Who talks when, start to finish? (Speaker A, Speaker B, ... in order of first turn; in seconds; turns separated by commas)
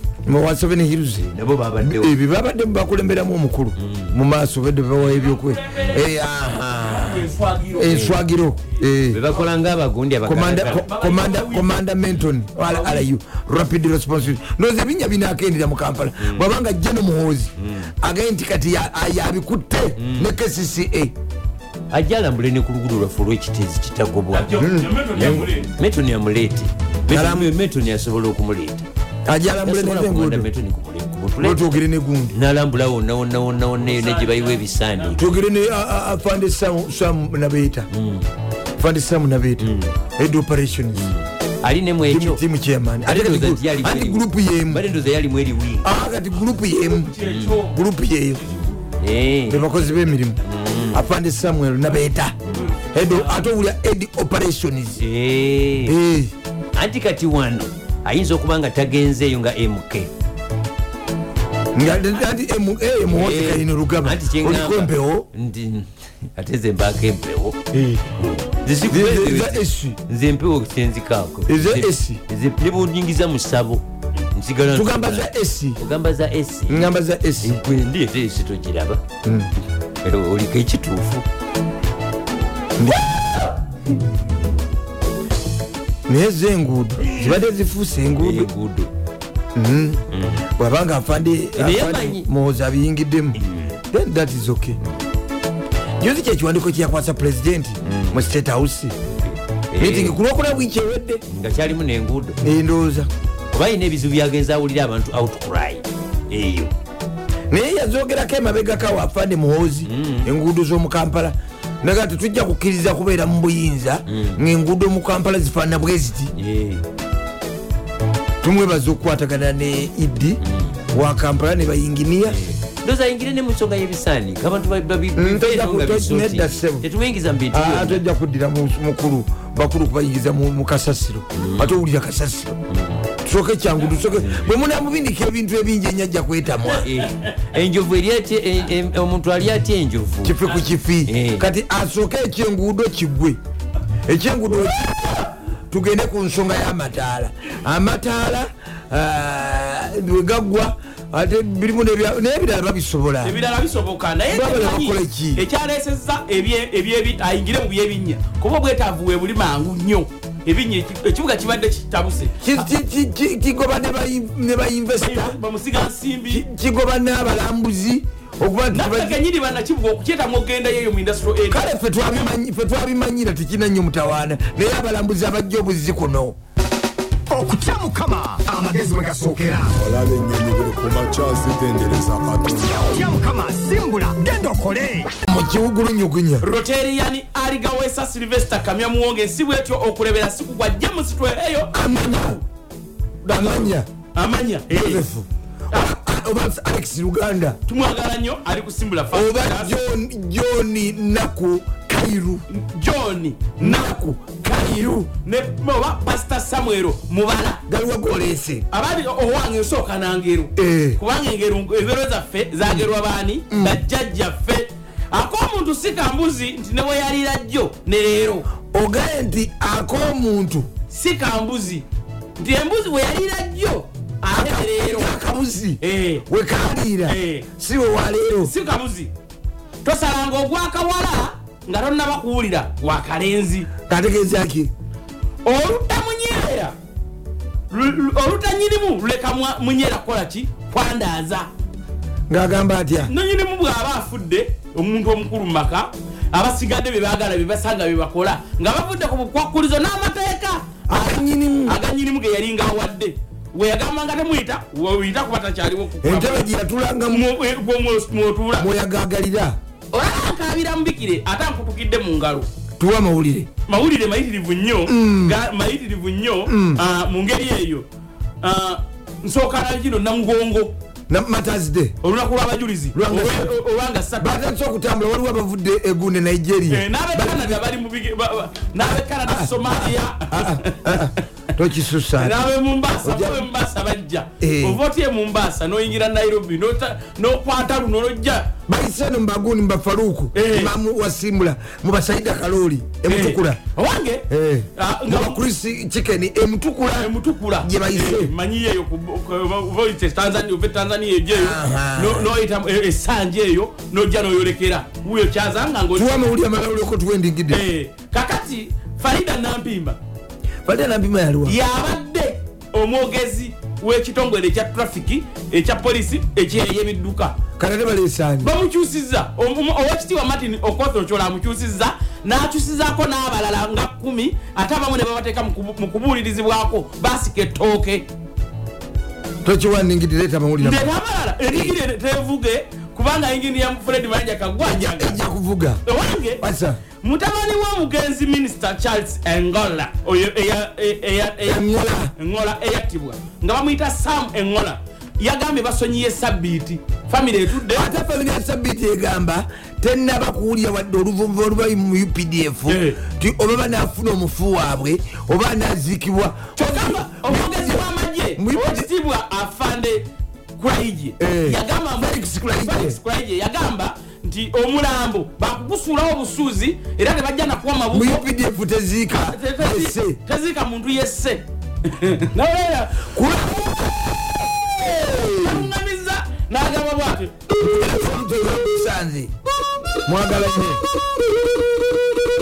Speaker A: 0.3-1.2, Speaker B: 1.2-2.1, Speaker A: 1.8-7.1, Speaker B: 3.8-4.2, Speaker C: 5.0-6.1, Speaker B: 5.7-6.0, Speaker C: 6.7-7.9, Speaker A: 7.7-9.2, Speaker B: 7.9-8.2, Speaker B: 9.1-10.9, Speaker C: 9.2-9.5, Speaker A: 10.2-21.1, Speaker C: 10.6-11.7, Speaker C: 12.7-13.1, Speaker B: 16.2-16.5, Speaker B: 17.6-17.9, Speaker B: 20.0-20.3, Speaker B: 21.9-28.9, Speaker C: 24.3-25.7, Speaker A: 24.6-25.5, Speaker A: 27.1-27.5, Speaker A: 29.3-30.5, Speaker B: 29.6-31.7, Speaker A: 31.4-32.4, Speaker B: 32.3-35.3, Speaker C: 33.8-35.3, Speaker A: 35.2-37.9, Speaker B: 37.9-38.3, Speaker A: 38.8-41.1, Speaker B: 39.6-40.0, Speaker B: 41.0-42.4, Speaker A: 42.0-44.8, Speaker B: 43.0-45.9, Speaker A: 45.8-48.5, Speaker C: 46.6-47.8, Speaker B: 47.2-47.6, Speaker B: 48.5-49.9, Speaker A: 49.5-50.4, Speaker B: 50.4-51.0, Speaker A: 50.9-52.4, Speaker B: 52.4-52.7, Speaker C: 52.5-53.5, Speaker A: 52.9-55.0, Speaker B: 55.0-56.0, Speaker A: 55.9-56.3, Speaker B: 56.7-60.1, Speaker A: 61.7-65.3, Speaker B: 63.1-67.6, Speaker A: 67.7-68.0, Speaker B: 68.2-73.8, Speaker A: 68.9-70.0, Speaker A: 71.5-72.2, Speaker B: 74.3-79.0, Speaker A: 74.7-75.8, Speaker A: 76.7-77.6, Speaker A: 79.2-79.5, Speaker B: 80.0-81.2, Speaker A: 82.8-83.4, Speaker A: 86.1-88.5, Speaker B: 88.2-88.9, Speaker A: 89.5-93.4, Speaker B: 90.1-90.5, Speaker B: 91.5-92.3, Speaker B: 93.3-93.8, Speaker A: 93.9-94.8, Speaker A: 96.0-99.0, Speaker B: 97.8-98.2, Speaker B: 99.1-100.2, Speaker A: 99.8-101.2, Speaker B: 101.3-102.4, Speaker A: 102.4-103.1, Speaker B: 103.5-106.7, Speaker A: 107.5-116.3, Speaker B: 109.9-110.3, Speaker B: 114.1-114.4, Speaker B: 116.4-116.8, Speaker A: 118.4-122.4, Speaker B: 120.4-120.7, Speaker B: 122.2-128.0, Speaker A: 125.2-126.9, Speaker A: 127.5-132.6, Speaker B: 131.3-131.8, Speaker B: 132.7-133.0, Speaker A: 133.2-136.9, Speaker B: 134.2-134.5, Speaker B: 136.8-140.5, Speaker A: 140.2-143.4, Speaker B: 141.1-141.5, Speaker A: 144.1-145.1, Speaker C: 144.7-145.3, Speaker A: 145.7-153.4, Speaker C: 153.2-162.4, Speaker A: 154.3-155.4, Speaker A: 162.4-165.3, Speaker C: 165.0-166.4, Speaker A: 166.3-169.2, Speaker C: 168.7-172.3, Speaker A: 171.5-176.4, Speaker D: 177.3-179.7, Speaker E: 179.8-183.0, Speaker D: 182.9-185.1, Speaker A: 185.3-186.5, Speaker C: 186.4-192.4, Speaker A: 191.7-192.4, Speaker A: 193.2-193.9, Speaker C: 193.3-195.0, Speaker A: 194.7-197.6, Speaker C: 197.7-199.7, Speaker A: 199.1-202.4, Speaker C: 202.5-204.0, Speaker A: 203.6-205.1, Speaker C: 205.1-207.6, Speaker A: 207.7-208.7, Speaker C: 208.7-218.4, Speaker A: 210.6-211.0, Speaker A: 213.5-213.8, Speaker A: 218.7-220.7, Speaker C: 220.9-221.8, Speaker C: 222.4-225.1, Speaker A: 224.3-228.5, Speaker C: 225.8-226.2, Speaker C: 227.1-227.4, Speaker C: 228.4-229.1, Speaker C: 229.8-233.7, Speaker A: 233.9-234.7, Speaker C: 235.4-236.7, Speaker C: 237.7-241.5, Speaker A: 242.3-243.1, Speaker C: 243.1-256.5, Speaker A: 250.9-251.8, Speaker A: 256.0-257.3, Speaker C: 257.1-258.7, Speaker A: 258.6-259.6, Speaker C: 259.9-262.5, Speaker A: 262.8-263.5, Speaker C: 263.7-267.9, Speaker A: 264.9-265.4, Speaker A: 266.5-266.8, Speaker C: 268.4-270.7, Speaker A: 271.1-271.9, Speaker C: 272.0-274.4, Speaker A: 272.9-273.5, Speaker A: 274.2-277.6, Speaker C: 276.7-281.1, Speaker A: 278.8-282.4, Speaker C: 282.2-288.5, Speaker A: 283.0-283.5, Speaker A: 284.4-284.8, Speaker A: 288.7-293.6, Speaker C: 290.3-290.7, Speaker C: 293.1-294.2, Speaker A: 294.3-298.3, Speaker C: 294.8-295.4, Speaker C: 297.0-306.3, Speaker A: 301.3-302.3, Speaker A: 305.9-307.6, Speaker C: 307.5-310.0, Speaker A: 310.6-311.6, Speaker C: 311.4-317.4, Speaker A: 317.6-318.5, Speaker C: 318.4-328.1, Speaker A: 329.4-330.9, Speaker C: 330.6-335.1, Speaker A: 331.5-331.8, Speaker A: 334.6-335.8, Speaker C: 335.9-336.4, Speaker A: 336.4-336.8, Speaker C: 337.0-341.6, Speaker A: 341.4-342.1, Speaker C: 342.2-347.9, Speaker A: 347.7-358.9, Speaker C: 352.7-353.0, Speaker C: 356.6-360.1, Speaker C: 360.6-368.2, Speaker A: 361.2-363.0, Speaker A: 367.9-370.2, Speaker C: 369.3-373.1, Speaker A: 373.1-375.7, Speaker C: 375.0-377.3, Speaker A: 377.5-379.3, Speaker A: 380.1-380.8